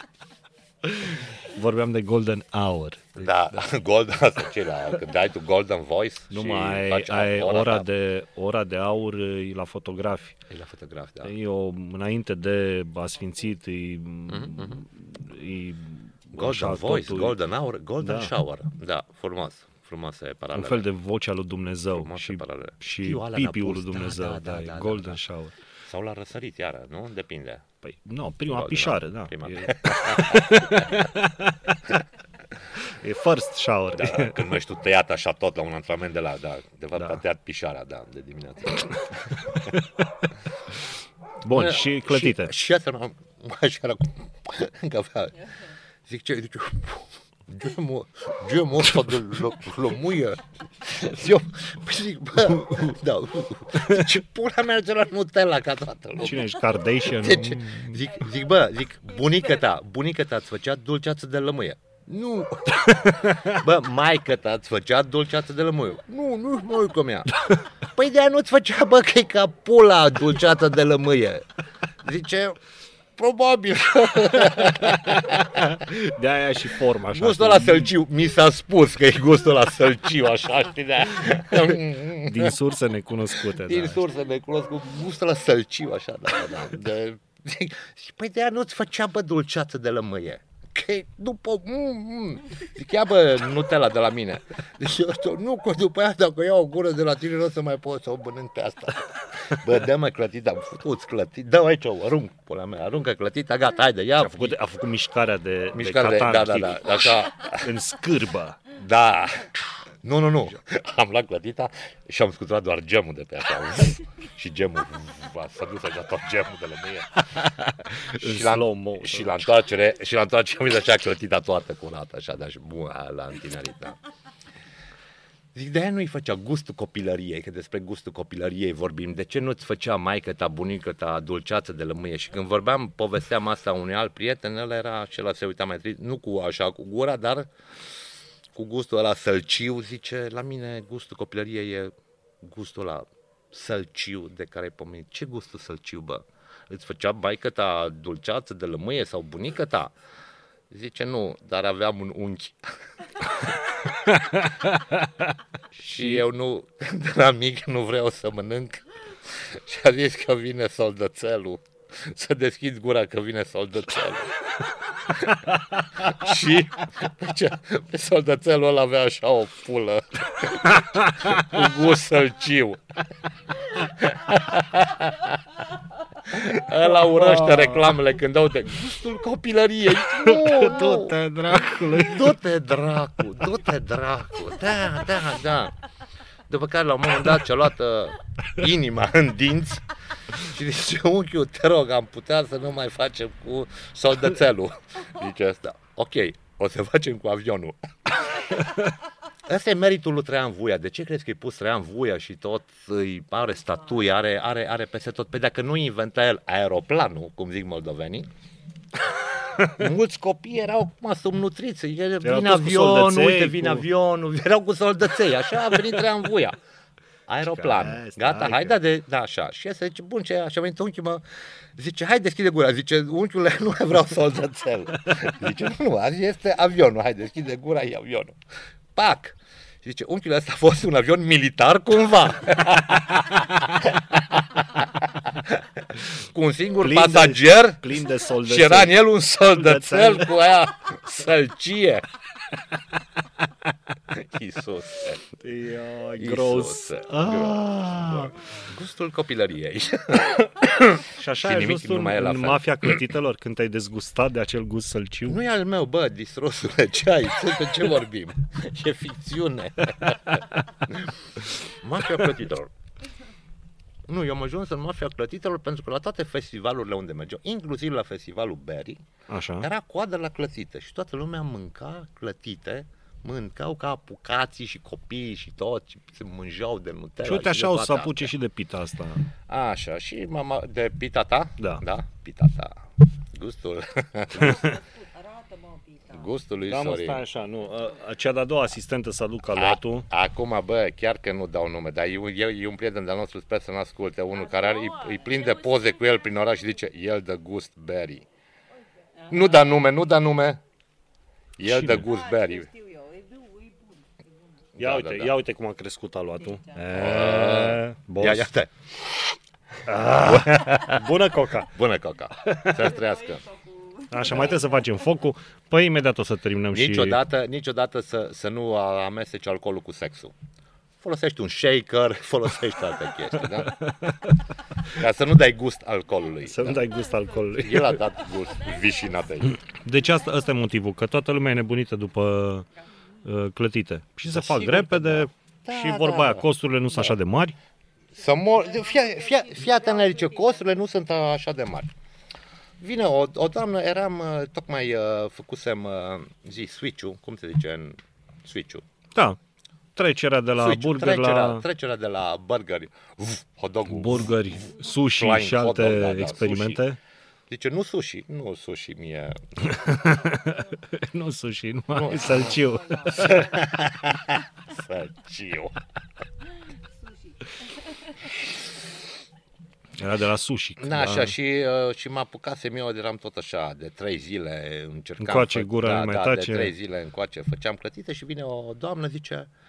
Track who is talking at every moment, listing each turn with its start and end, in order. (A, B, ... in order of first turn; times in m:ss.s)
0:00.8-0:03.3 A
0:03.2-0:07.9 B
0:06.3-0:10.4 A
0:10.5-0:11.3 B
0:11.2-0:17.4 A
0:14.3-0:14.8 B
0:16.3-0:20.9 B
0:18.0-0:18.3 A
0:20.6-0:25.6 A
0:21.9-0:25.2 B
0:25.9-0:27.6 B
0:27.8-0:32.0 A
0:28.5-0:31.1 B
0:32.8-0:34.5 A
0:33.9-0:39.7 B
0:41.4-0:42.5 A
0:41.5-0:45.5 B
0:46.0-1:11.4 B
0:56.2-0:58.0 A
1:02.8-1:03.6 A
1:12.0-1:12.6 B
1:13.2-1:15.6 B
1:14.4-1:17.9 A
1:17.1-1:22.6 B
1:22.2-1:24.0 A
1:23.4-1:44.6 B
1:44.2-1:48.6 A
1:45.7-1:47.7 B
1:48.7-2:04.0 B
1:58.0-1:59.4 A
2:05.5-2:17.5 B
2:18.5-2:29.9 B
2:30.7-2:33.9 B
2:34.1-2:35.3 A
2:35.8-2:53.0 B
2:50.8-2:51.4 A
2:53.7-2:55.5 B
2:56.2-3:05.8 B
2:56.8-2:58.0 A
3:00.0-3:02.4 A
3:06.5-3:18.7 B
3:19.5-3:28.3 B
3:29.7-3:36.6 B
3:32.2-3:33.9 A
3:37.3-3:41.2 B
3:37.4-3:38.8 A
3:41.8-3:48.4 B
3:49.0-4:02.0 B
3:56.8-4:00.3 A
4:04.1-4:05.2 B
4:05.4-4:08.4 A
4:06.2-4:13.0 B
4:11.2-4:15.4 A
4:15.3-4:22.7 B
4:24.1-4:29.0 B
4:29.3-4:29.7 A
4:29.6-4:38.3 B
4:37.2-4:39.3 A
4:39.5-4:42.8 B
4:41.6-4:41.8 A
4:43.3-4:44.8 B
4:44.3-4:46.3 C
4:46.1-4:47.2 B
4:46.7-4:50.1 A
4:49.6-4:58.3 B
4:54.4-4:56.2 C
4:59.0-4:59.7 C
4:59.3-5:00.6 B
5:01.6-5:02.7 B
5:01.6-5:02.1 A
5:02.0-5:04.7 C
5:04.8-5:05.4 B
5:04.8-5:08.5 A
5:06.4-5:06.8 C
5:06.9-5:09.4 B
5:09.8-5:11.7 A
5:10.2-5:11.1 B
5:11.6-5:13.4 B
5:12.4-5:12.8 A
5:12.8-5:14.8 C
5:14.1-5:17.2 A
5:14.3-5:14.6 B
5:16.7-5:20.3 B
5:21.0-5:23.8 B
5:23.6-5:24.4 A
5:24.9-5:26.9 B
5:26.4-5:28.0 A
5:27.5-5:29.6 B
5:28.5-5:29.4 C
5:29.5-5:32.7 A
5:33.2-5:37.6 A
5:34.2-5:37.2 B
5:38.1-5:41.9 B
5:38.2-5:40.8 C
5:42.8-5:48.8 B
5:50.0-5:51.6 A
5:50.6-5:56.8 B
5:53.9-5:57.0 A
5:57.5-5:59.4 B
5:59.6-6:03.6 A
6:01.9-6:02.6 B
6:02.3-6:03.6 C
6:03.1-6:05.8 B
6:06.9-6:08.2 C
6:10.0-6:11.3 A
6:10.8-6:19.5 B
6:15.2-6:16.7 A